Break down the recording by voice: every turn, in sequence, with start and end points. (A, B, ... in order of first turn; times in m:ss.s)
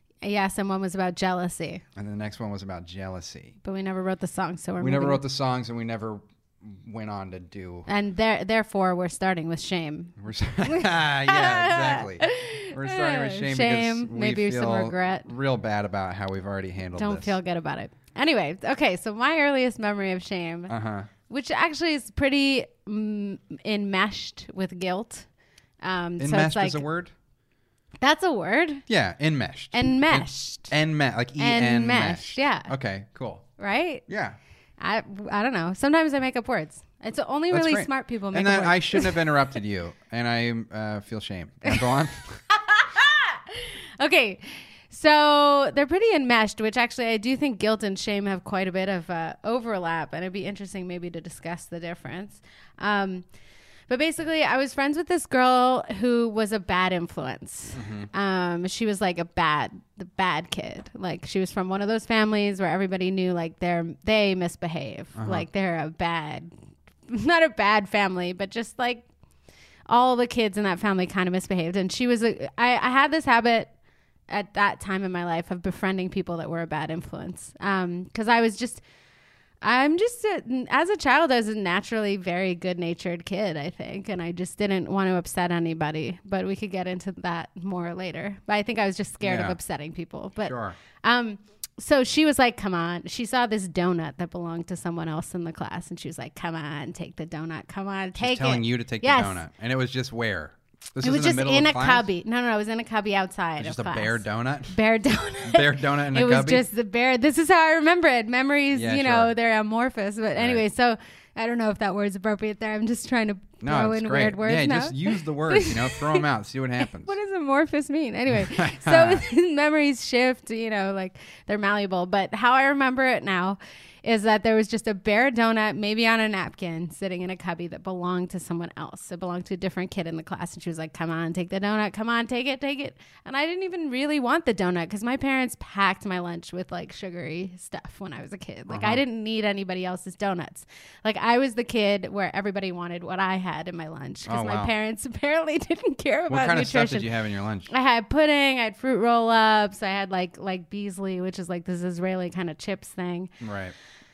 0:00.2-0:01.8 A
0:01.9-0:03.6 B
0:03.6-0:05.2 A
0:04.8-0:07.9 B
0:07.9-0:15.3 A
0:10.2-0:17.4 B
0:17.0-0:20.7 A
0:20.7-0:21.1 B
0:21.3-0:25.3 A
0:25.8-0:26.8 A
0:26.2-0:27.1 B
0:28.0-0:28.8 A
0:28.9-0:33.5 B
0:29.7-0:30.7 A
0:31.4-0:32.7 A
0:33.6-0:34.0 A
0:34.1-0:34.4 B
0:34.8-0:39.3 A
0:37.5-0:42.4 B
0:42.5-0:53.2 A
0:53.9-1:06.5 A
0:57.7-0:58.1 B
1:05.2-1:05.5 B
1:07.1-1:09.1 A
1:09.9-1:13.7 A
1:14.3-1:18.8 A
1:19.6-1:39.4 A
1:29.2-1:29.6 B
1:30.4-1:30.8 B
1:38.1-1:42.1 B
1:41.0-1:56.2 A
1:43.6-1:44.8 B
1:45.4-1:46.7 B
1:48.7-1:49.3 B
1:50.4-1:50.6 B
1:53.6-1:57.2 B
1:56.8-2:27.1 A
1:58.3-1:59.2 B
2:18.7-2:19.0 B
2:24.2-2:24.7 B
2:26.3-2:27.7 B
2:27.7-2:33.3 A
2:33.4-2:33.7 B